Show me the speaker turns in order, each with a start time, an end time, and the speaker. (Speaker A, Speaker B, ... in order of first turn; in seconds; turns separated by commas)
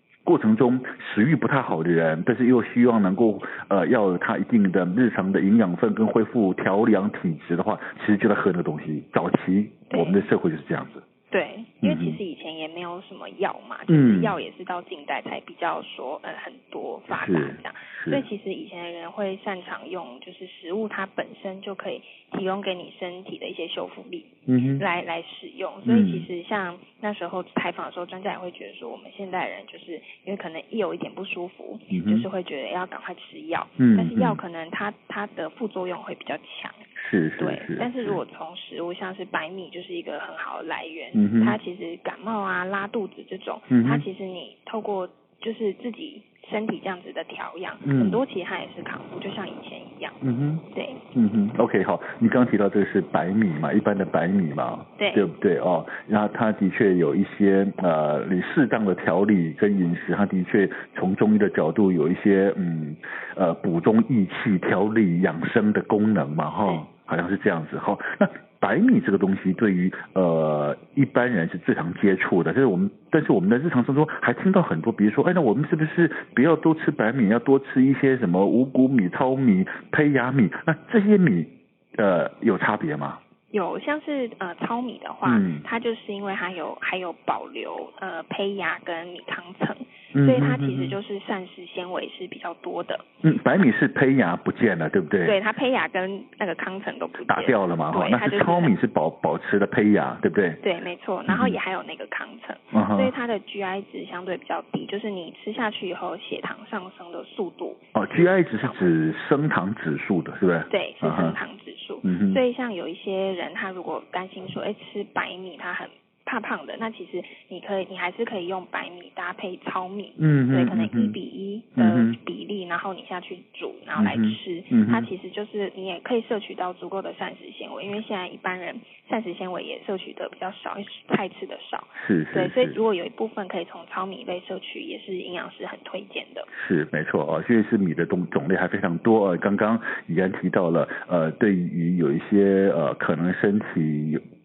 Speaker A: 0.2-11.0, Speaker B: 9.9-10.2, Speaker B: 11.3-36.8, Speaker A: 11.8-12.2, Speaker A: 13.9-14.4, Speaker A: 17.1-18.3, Speaker A: 24.5-24.8, Speaker A: 25.8-26.3, Speaker A: 31.9-32.3, Speaker A: 33.8-34.4, Speaker A: 37.0-38.2, Speaker B: 37.4-50.2, Speaker A: 41.1-41.6, Speaker A: 43.7-44.0, Speaker A: 47.8-48.2, Speaker A: 50.2-83.2, Speaker B: 50.7-51.0, Speaker B: 55.0-55.3, Speaker B: 83.5-93.0, Speaker A: 85.2-85.7, Speaker A: 90.1-91.0, Speaker A: 93.2-95.4, Speaker B: 95.2-98.8, Speaker A: 97.3-100.6, Speaker B: 100.6-108.9, Speaker A: 101.3-101.6, Speaker A: 102.7-103.1, Speaker A: 107.9-111.4, Speaker B: 110.7-136.5, Speaker A: 112.0-112.4, Speaker A: 120.2-121.2, Speaker A: 121.8-122.2, Speaker A: 124.0-125.1, Speaker A: 131.9-132.8, Speaker A: 136.5-144.2